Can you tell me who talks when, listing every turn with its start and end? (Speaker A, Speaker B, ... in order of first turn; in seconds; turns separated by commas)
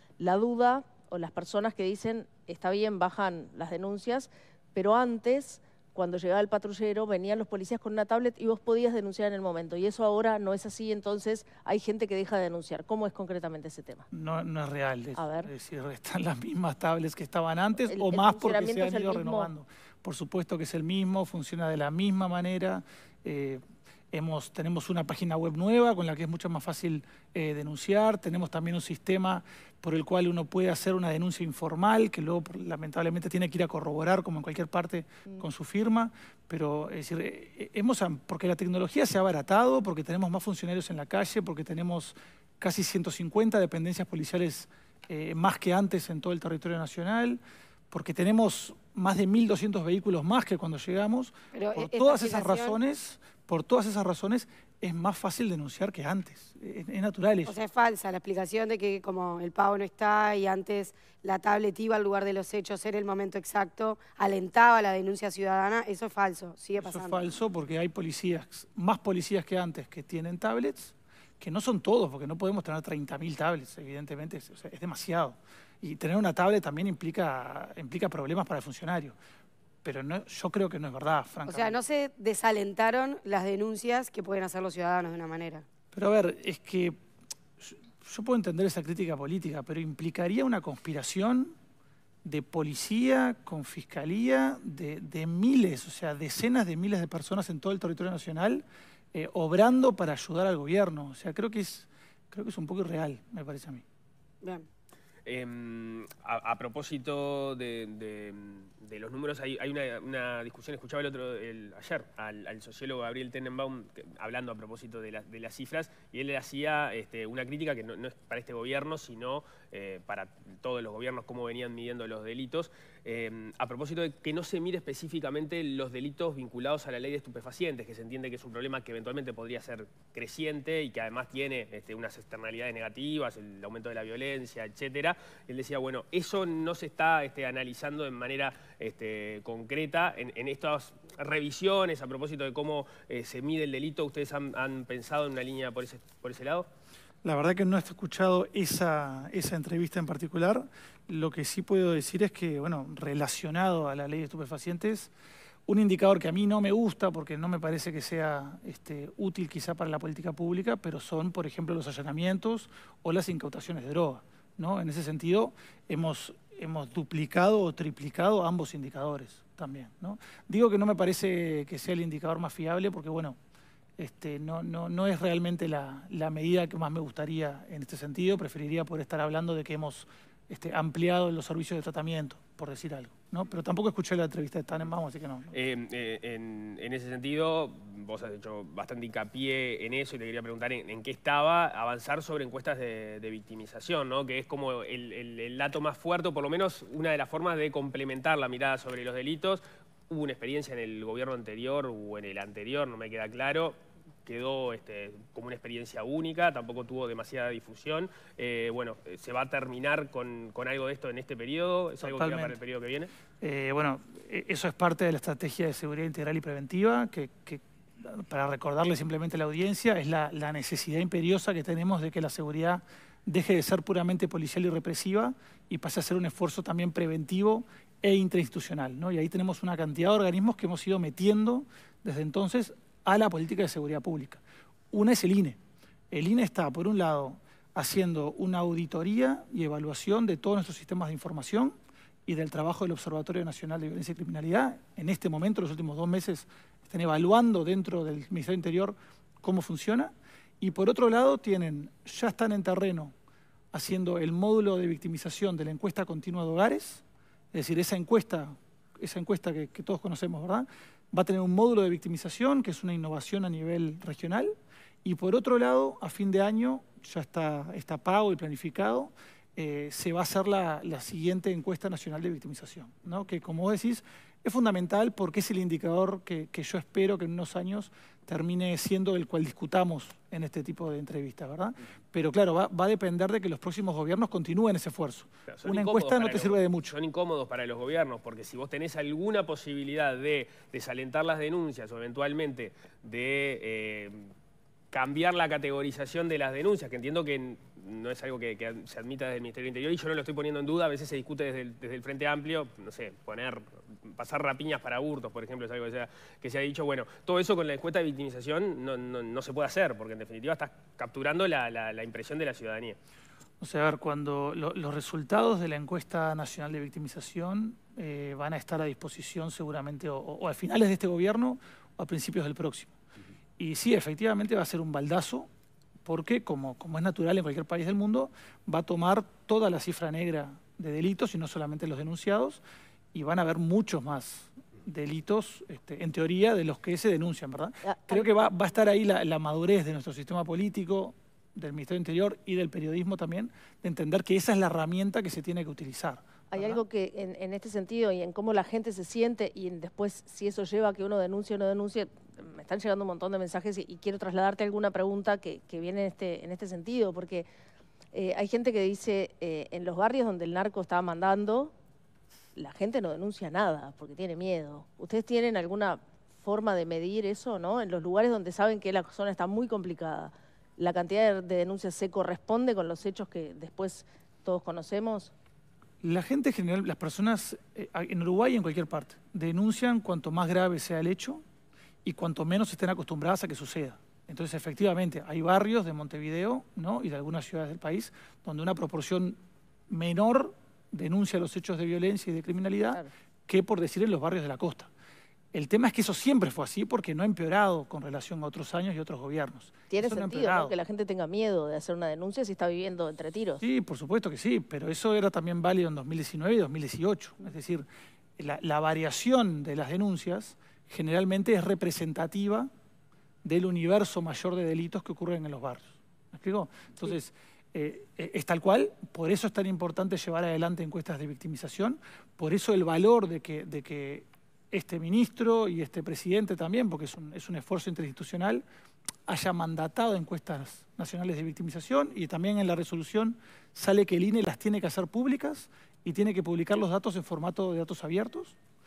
Speaker A: 0.2-14.1, Speaker B: 14.1-47.4, Speaker A: 15.2-15.5, Speaker A: 17.9-19.5, Speaker B: 47.9-57.6, Speaker C: 51.5-52.8, Speaker C: 57.5-67.2, Speaker B: 66.8-79.2, Speaker B: 79.8-81.8, Speaker C: 81.5-85.7, Speaker B: 85.9-87.0, Speaker B: 87.6-91.5, Speaker B: 92.2-103.8, Speaker C: 104.4-104.7, Speaker D: 105.3-146.7, Speaker B: 147.2-155.1, Speaker B: 155.7-173.4, Speaker B: 174.0-185.5, Speaker D: 185.5-213.1, Speaker B: 212.0-212.6, Speaker B: 213.4-235.6, Speaker B: 236.1-253.1, Speaker B: 253.7-287.0, Speaker D: 285.5-294.3, Speaker D: 294.9-313.0, Speaker B: 313.6-322.9, Speaker B: 323.6-325.5, Speaker B: 326.1-332.6, Speaker B: 333.1-346.8, Speaker A: 337.9-338.2, Speaker A: 346.5-357.5, Speaker A: 358.1-361.7, Speaker A: 362.6-375.3, Speaker B: 376.0-381.4, Speaker B: 382.1-389.4, Speaker B: 389.9-394.9, Speaker B: 395.5-400.8, Speaker A: 399.9-403.6, Speaker B: 403.6-407.9, Speaker B: 408.4-412.7, Speaker B: 413.4-428.6, Speaker B: 429.3-438.6